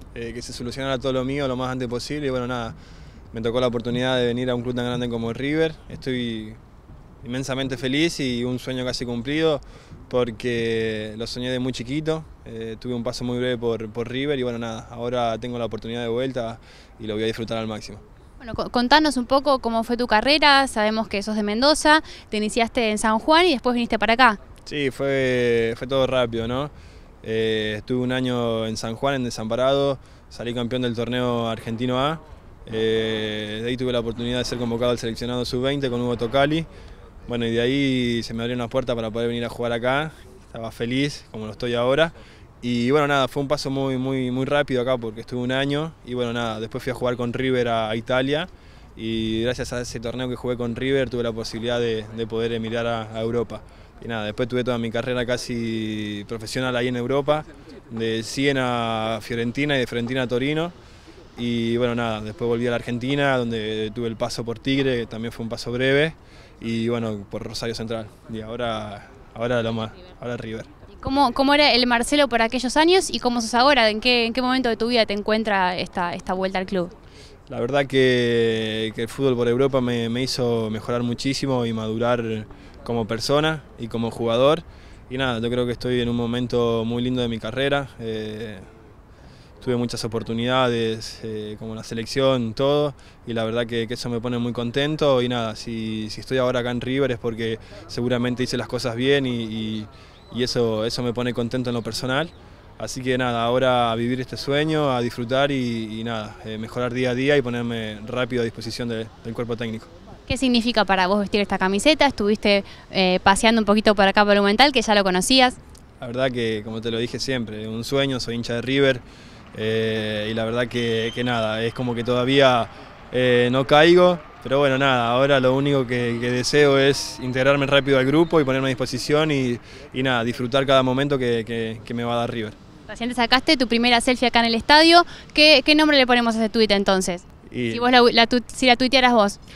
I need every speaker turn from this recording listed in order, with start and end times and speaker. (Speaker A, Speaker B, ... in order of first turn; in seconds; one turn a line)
Speaker A: 0.1-2.7
Speaker A: 3.3-6.6
Speaker A: 7.2-18.0
Speaker B: 18.4-24.4
Speaker A: 24.6-26.7
Speaker A: 27.2-36.7
Speaker A: 37.3-60.7
Speaker A: 61.4-70.7
Speaker B: 71.0-76.9
Speaker A: 77.5-88.6
Speaker A: 89.6-109.9
Speaker B: 110.3-115.6
Speaker A: 116.0-132.6
Speaker B: 132.9-139.4
Speaker A: 137.5-137.8